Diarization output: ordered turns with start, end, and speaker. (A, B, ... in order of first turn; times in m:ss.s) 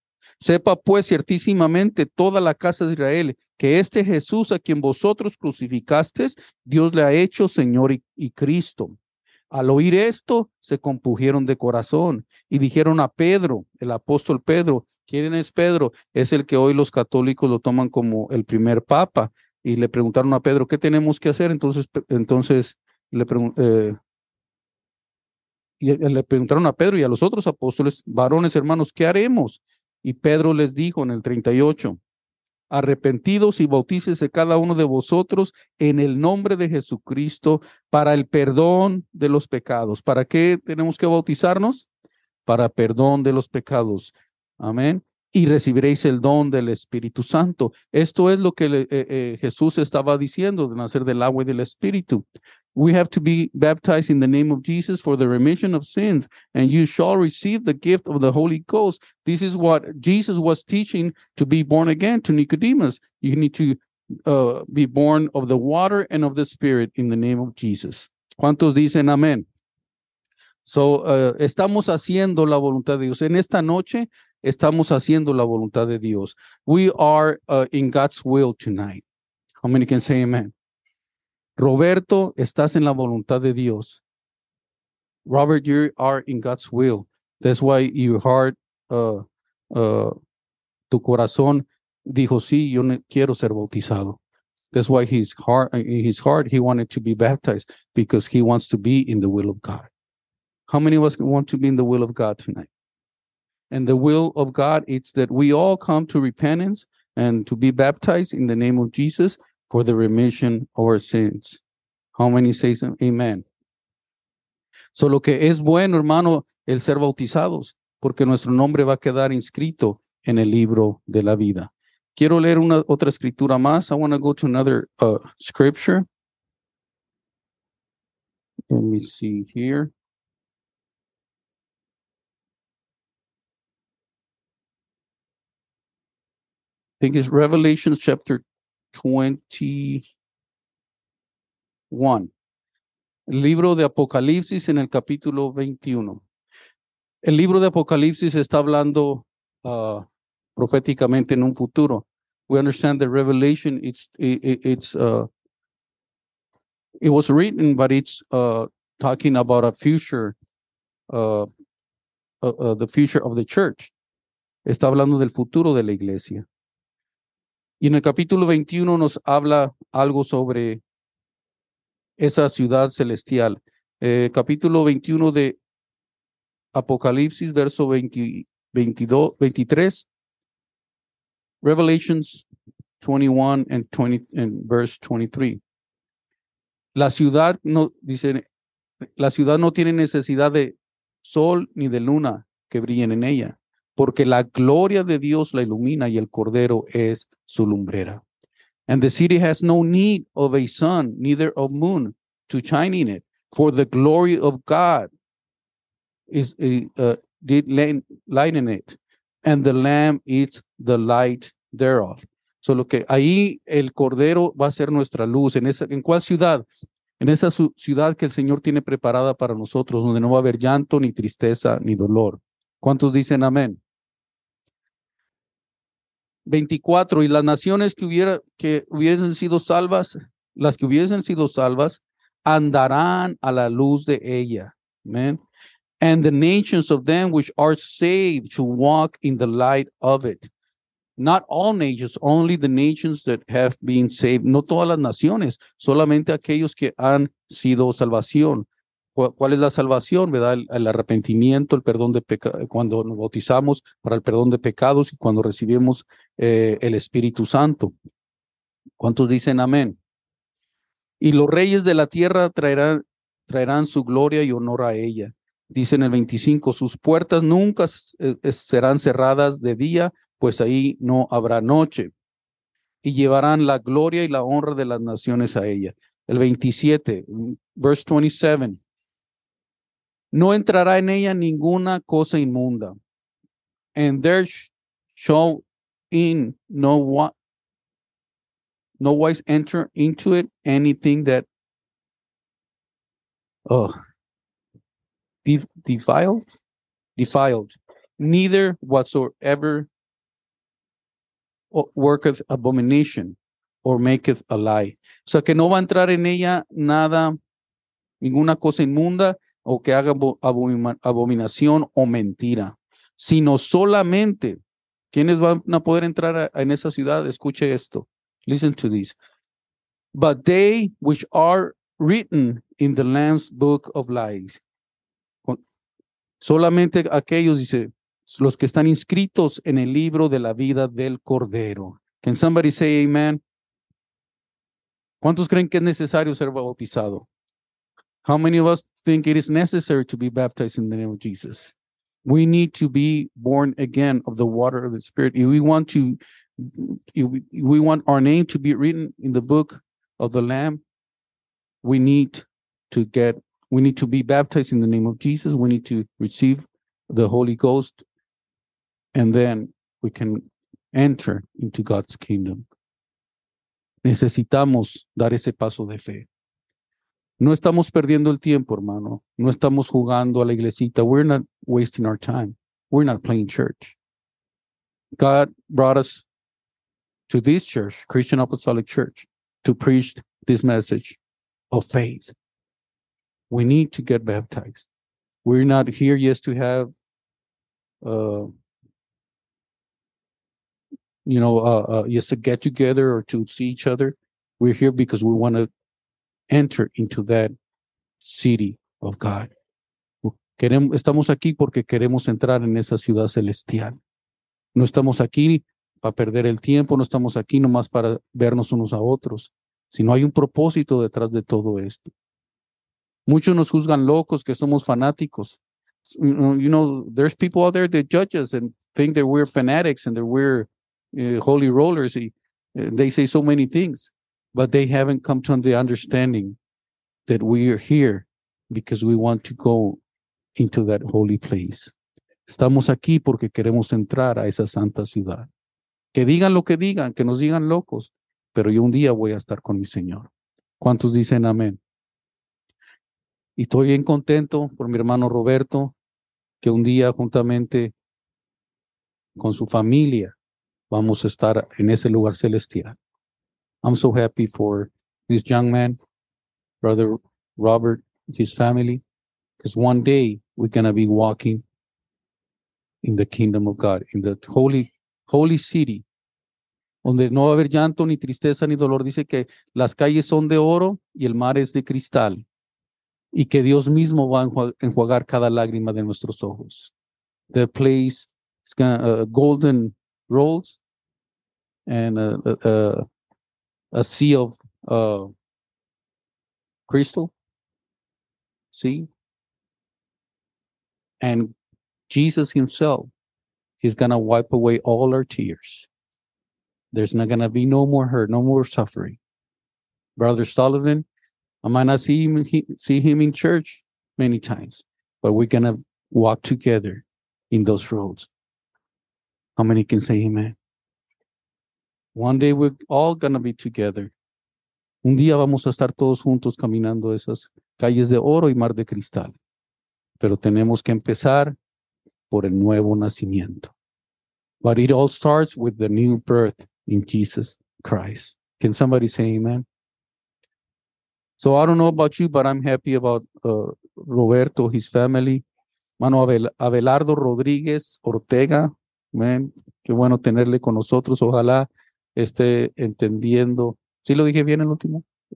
0:00.4-0:09.0 A
0:09.5-0:24.0 A
0:25.8-0:32.0 A
0:32.7-0:41.9 A
0:42.4-1:09.4 A
1:10.6-1:19.0 A
1:19.6-1:20.5 A
1:21.6-1:24.0 A
1:25.2-1:30.1 A
1:30.9-1:34.2 A
1:34.7-1:39.9 A
1:40.7-1:42.7 A
1:43.7-1:51.6 A
1:52.1-1:53.4 A
1:54.9-2:06.0 A
2:08.7-2:09.9 A
2:17.0-2:20.1 A
2:21.9-2:22.3 A
2:23.3-2:26.2 A
2:27.2-2:30.0 A
2:30.6-2:35.3 A
2:37.0-2:40.4 A
2:41.1-2:41.5 A
2:42.4-2:43.9 A
2:44.6-2:46.4 A
2:47.8-2:50.8 A
2:52.2-2:55.6 A
2:56.7-3:00.1 A
3:01.6-3:02.4 A
3:03.0-3:05.6 A
3:06.9-3:08.4 A
3:09.2-3:18.2 A
3:18.9-3:25.1 A
3:26.3-3:36.6 A
3:37.2-3:43.8 A
3:46.5-3:55.4 A
3:56.0-4:00.5 A
4:01.2-4:17.9 A
4:19.0-4:20.0 A
4:21.2-4:32.1 A
4:33.0-4:38.8 A
4:40.3-4:42.9 A
4:44.0-4:47.3 A
4:49.0-4:51.5 A
4:53.7-4:53.9 A
4:55.4-4:56.4 A
4:57.2-4:59.9 A
5:01.7-5:07.4 A
5:08.2-5:14.6 A
5:15.1-5:19.2 A
5:20.1-5:24.6 A
5:26.4-5:33.4 A
5:35.2-5:37.3 A
5:38.2-5:41.7 A
5:42.2-5:50.8 A
5:51.8-5:58.0 A
5:59.1-6:02.7 A
6:04.0-6:06.3 A
6:07.4-6:14.0 A
6:15.2-6:16.2 A
6:17.3-6:21.2 A
6:21.7-6:22.3 A
6:23.5-6:24.9 A
6:25.4-6:26.9 A
6:28.0-6:28.5 A
6:31.2-6:35.7 A
6:36.5-6:37.5 A
6:38.2-6:39.5 A
6:40.2-6:44.0 A
6:44.7-6:52.1 A
6:53.3-7:06.6 A
7:07.3-7:10.0 A
7:10.6-7:11.9 A
7:12.5-7:15.5 A
7:16.1-7:20.3 A
7:20.8-7:21.8 A
7:23.6-7:25.9 A
7:26.6-7:27.9 A
7:29.4-7:30.3 A
7:30.9-7:33.0 A
7:33.8-7:36.0 A
7:36.8-7:39.0 A
7:39.6-7:41.6 A
7:43.0-7:46.0 A
7:47.0-7:52.4 A
7:53.3-7:56.9 A
7:57.5-8:00.8 A
8:01.9-8:03.0 A
8:03.9-8:05.3 A
8:06.9-8:07.3 A
8:08.7-8:09.1 A
8:11.2-8:11.5 A
8:12.1-8:13.1 A
8:13.8-8:15.9 A
8:16.9-8:19.2 A
8:20.2-8:21.0 A
8:21.6-8:28.3 A
8:29.6-8:30.6 A
8:32.1-8:34.1 A
8:35.0-8:39.4 A
8:40.2-8:41.6 A
8:42.3-8:43.7 A
8:44.6-8:49.6 A
8:51.4-8:55.4 A
8:56.0-9:05.0 A